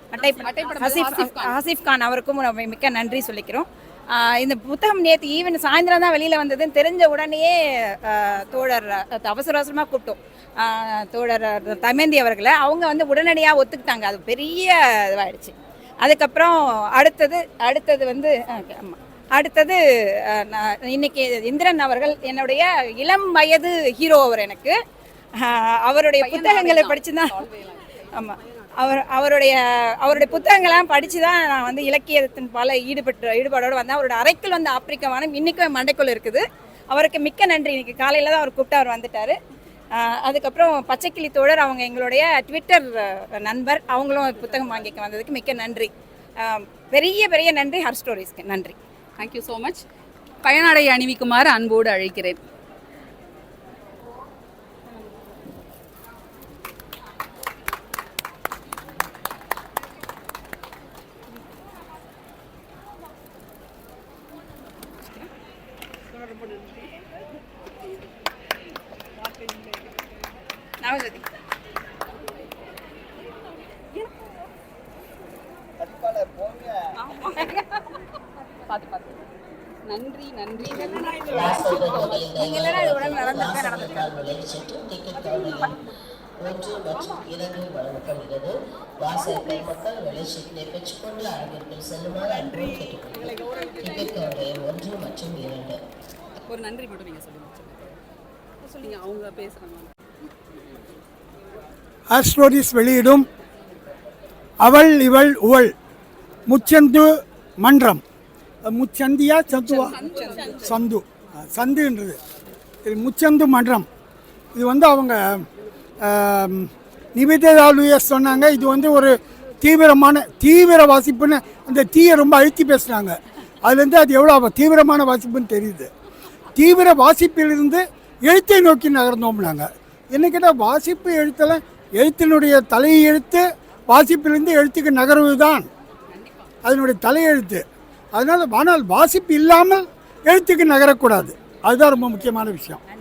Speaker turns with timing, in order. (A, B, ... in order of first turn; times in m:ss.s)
0:00.1-0:24.8 A
0:00.2-0:01.5 B
0:25.4-0:27.3 A
0:26.2-0:28.1 B
0:28.2-0:39.4 A
0:40.0-0:45.9 A
0:46.4-0:48.8 A
0:49.2-0:49.8 B
0:50.4-0:52.4 B
1:10.8-1:11.2 A
1:17.0-1:17.6 B
1:18.7-1:19.2 B
1:19.9-1:21.8 B
1:21.2-1:35.8 C
1:22.2-1:24.2 A
1:36.4-1:38.0 B
1:38.8-1:39.9 B
1:42.1-1:43.3 D
1:44.6-1:45.7 D
1:46.5-1:48.0 D
1:48.6-1:50.0 D
1:49.5-1:50.7 B
1:50.5-1:52.2 D
1:52.8-1:53.9 D
1:54.6-1:55.4 D
1:56.0-2:05.9 D
2:06.6-2:15.7 D
2:16.1-2:16.5 B
2:16.6-2:17.6 D
2:18.1-2:22.8 D